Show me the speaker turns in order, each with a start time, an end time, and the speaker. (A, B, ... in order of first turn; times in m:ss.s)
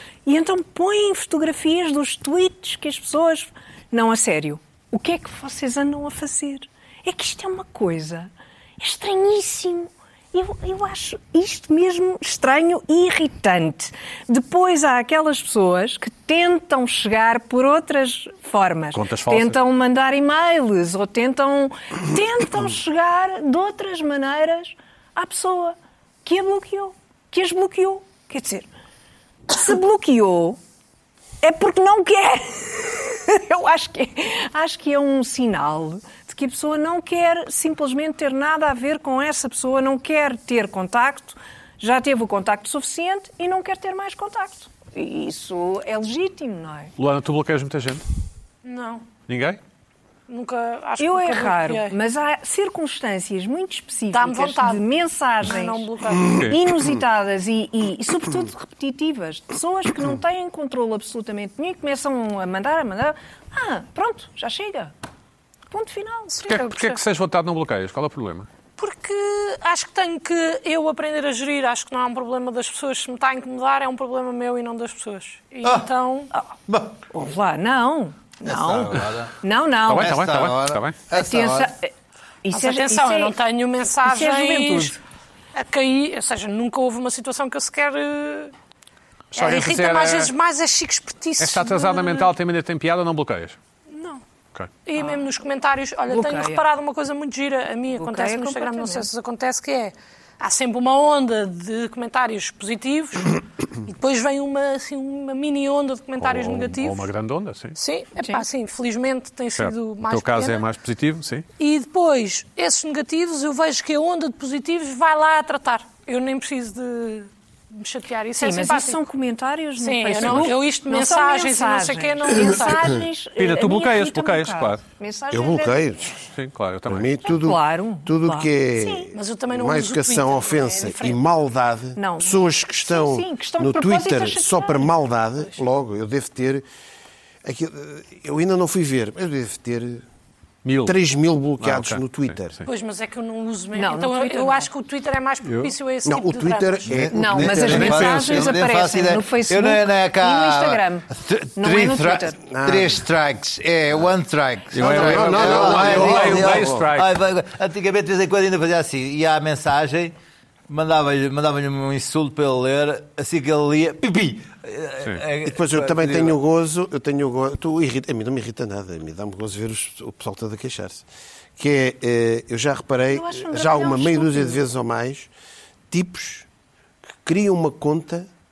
0:00.2-0:28.7 A
0:18.9-0:19.6 B
0:29.5-0:30.6 A
0:31.4-0:46.9 A
0:47.0-0:48.0 B
0:48.6-0:49.0 C
0:49.3-0:49.6 B
0:50.3-0:52.0 C
0:51.0-1:04.9 A
0:54.1-0:54.9 C
0:55.4-0:56.4 C
0:56.3-0:56.6 B
1:05.7-1:06.8 A
1:06.4-1:08.5 B
1:06.5-1:06.9 C
1:08.8-1:16.3 C
1:16.7-1:17.1 D
1:17.1-1:20.1 A
1:18.4-1:19.4 D
1:19.8-1:21.0 B
1:19.9-1:21.7 D
1:21.1-1:21.9 A
1:22.4-1:23.4 A
1:22.5-1:25.0 C
1:24.0-1:25.0 A
1:25.5-1:28.5 C
1:29.3-1:30.3 B
1:29.3-1:32.3 C
1:31.4-1:33.6 B
1:33.9-1:34.2 C
1:34.8-1:47.1 C
1:36.1-1:36.6 A
1:37.9-1:39.1 A
1:46.2-1:47.8 B
1:47.8-1:50.6 C
1:49.6-1:51.4 B
1:51.6-1:59.0 C
1:58.4-2:05.8 A
1:59.8-2:02.9 C
2:03.4-2:04.8 B
2:05.3-2:06.2 E
2:06.3-2:07.1 B
2:06.9-2:16.7 E
2:07.2-2:09.1 A
2:09.1-2:11.2 C
2:12.0-2:14.9 A
2:17.4-2:20.1 E
2:20.6-2:21.0 B
2:20.8-2:22.6 E
2:21.6-2:22.6 B
2:22.7-2:26.9 C
2:23.7-2:24.7 A
2:25.4-2:25.7 B
2:26.0-2:28.2 E
2:26.9-2:40.2 D
2:27.1-2:32.4 A
2:27.7-2:28.5 B
2:32.5-2:33.0 E
2:34.7-2:37.2 B
2:34.8-2:36.9 E
2:40.7-2:46.4 D
2:45.4-2:51.0 E
2:51.6-2:55.3 E
2:53.1-2:54.6 A
2:55.9-2:56.5 E
2:57.2-2:58.3 E